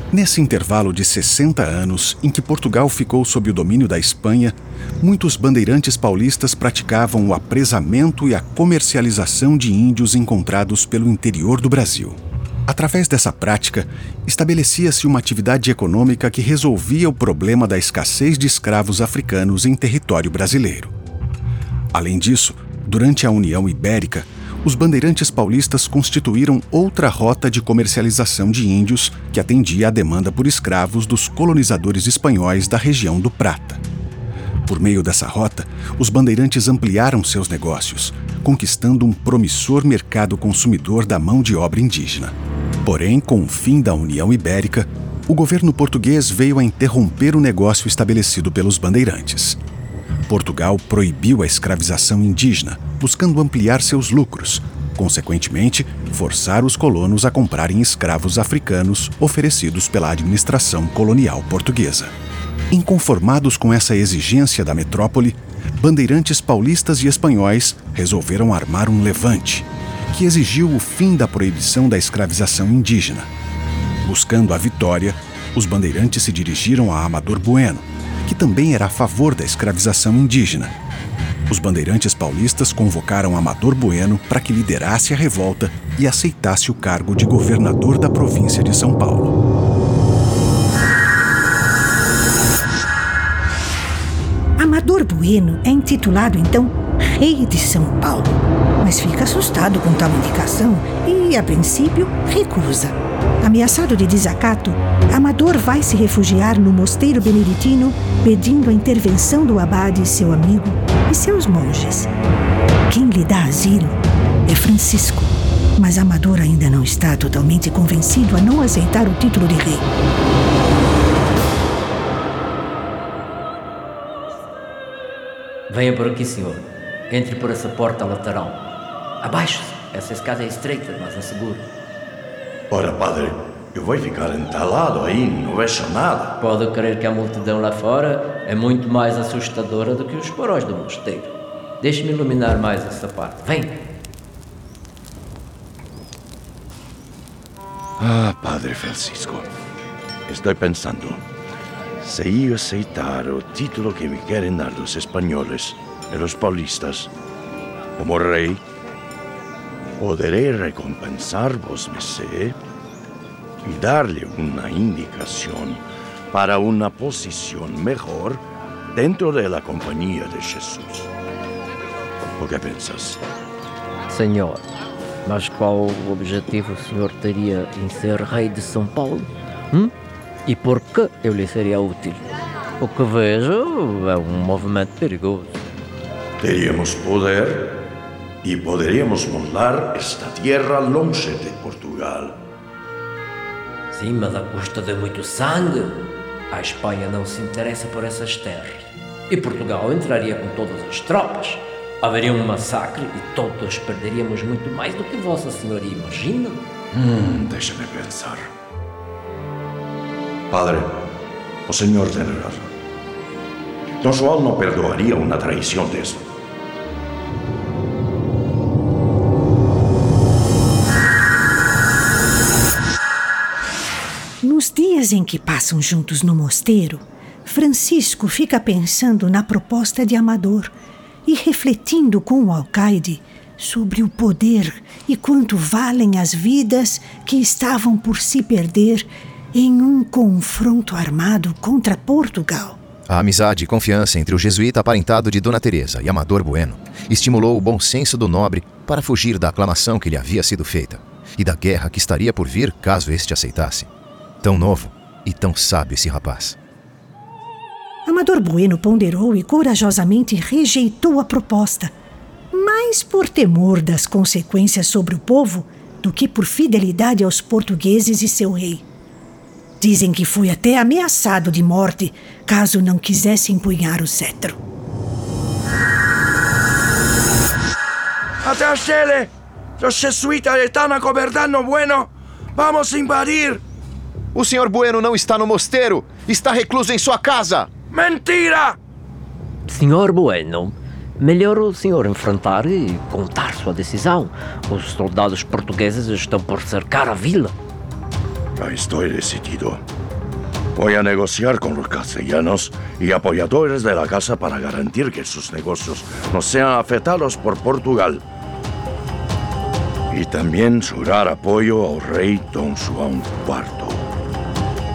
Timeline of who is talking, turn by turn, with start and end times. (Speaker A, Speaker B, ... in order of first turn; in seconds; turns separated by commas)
Speaker A: 0.1-20.9, Speaker A: 21.9-33.8, Speaker A: 34.7-42.3, Speaker A: 42.9-49.6, Speaker A: 50.3-62.1, Speaker A: 62.7-73.3, Speaker A: 74.0-80.7, Speaker A: 81.5-89.4, Speaker B: 94.6-112.1, Speaker B: 112.9-119.9, Speaker C: 125.7-128.6, Speaker C: 129.2-131.7, Speaker D: 132.7-136.4, Speaker C: 136.4-143.8, Speaker D: 148.0-149.5, Speaker D: 150.3-151.2, Speaker D: 152.0-157.1, Speaker D: 158.0-158.6, Speaker D: 160.0-162.6, Speaker D: 163.6-171.1, Speaker D: 172.4-173.2, Speaker C: 174.1-174.6, Speaker C: 175.3-179.9, Speaker C: 180.4-182.3, Speaker C: 182.8-185.6, Speaker D: 186.4-187.8, Speaker D: 188.4-192.4, Speaker C: 193.9-206.6, Speaker D: 206.9-208.5, Speaker D: 210.5-210.9, Speaker D: 211.7-212.7, Speaker D: 214.0-216.2, Speaker B: 224.4-230.7, Speaker B: 231.2-242.8, Speaker E: 243.1-253.9, Speaker E: 254.4-256.6, Speaker B: 258.1-261.9, Speaker B: 262.5-268.8, Speaker B: 269.8-274.6, Speaker E: 284.3-287.7, Speaker D: 288.0-288.3, Speaker C: 289.7-297.6, Speaker D: 298.6-299.8, Speaker D: 300.8-308.2, Speaker D: 310.1-314.1